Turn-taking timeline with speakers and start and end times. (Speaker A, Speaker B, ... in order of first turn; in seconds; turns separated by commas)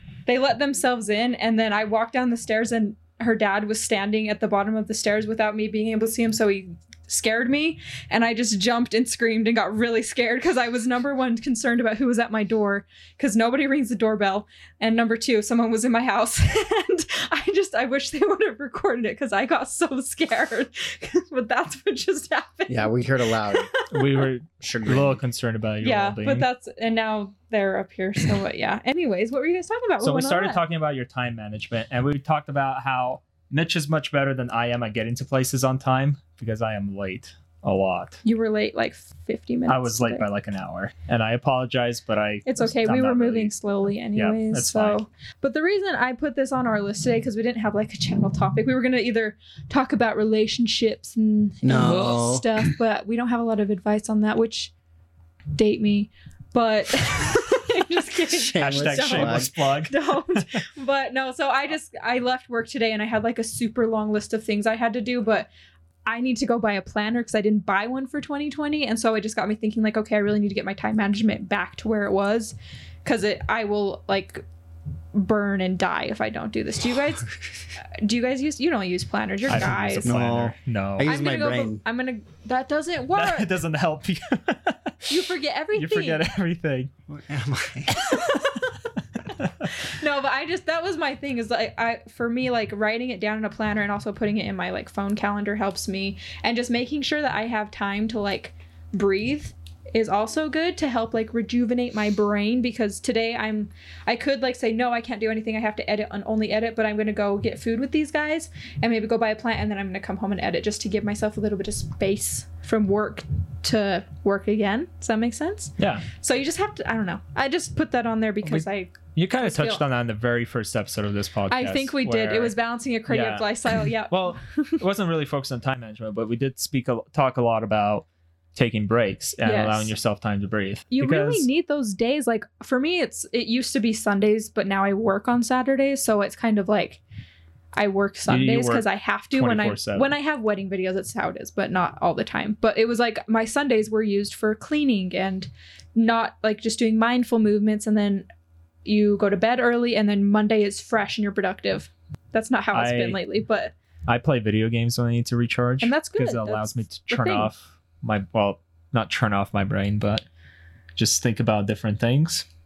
Speaker A: 0.3-24.2, Speaker B: 22.7-23.7, Speaker C: 23.9-26.5, Speaker B: 24.6-25.2, Speaker A: 25.8-30.6, Speaker C: 30.0-38.2, Speaker A: 38.2-40.2, Speaker C: 39.7-43.5, Speaker A: 42.5-54.7, Speaker C: 44.1-45.0, Speaker B: 51.6-52.5, Speaker A: 55.5-65.5, Speaker B: 58.3-59.5, Speaker C: 58.6-60.4, Speaker A: 66.1-74.5, Speaker A: 75.1-80.1, Speaker C: 79.5-81.1, Speaker B: 79.5-81.8, Speaker A: 81.0-83.5, Speaker C: 83.2-85.2, Speaker A: 85.1-86.2, Speaker C: 85.7-86.9, Speaker B: 87.1-88.1, Speaker C: 88.0-88.6, Speaker A: 88.1-88.6, Speaker A: 89.6-119.8, Speaker C: 115.8-116.1, Speaker C: 118.4-122.5, Speaker A: 121.5-124.8, Speaker C: 123.1-131.5, Speaker A: 129.4-129.9, Speaker A: 130.9-137.0, Speaker A: 137.8-148.3, Speaker C: 138.3-140.1, Speaker A: 148.8-153.7, Speaker C: 152.7-153.2, Speaker C: 154.1-160.2, Speaker A: 155.8-157.5, Speaker C: 161.0-162.4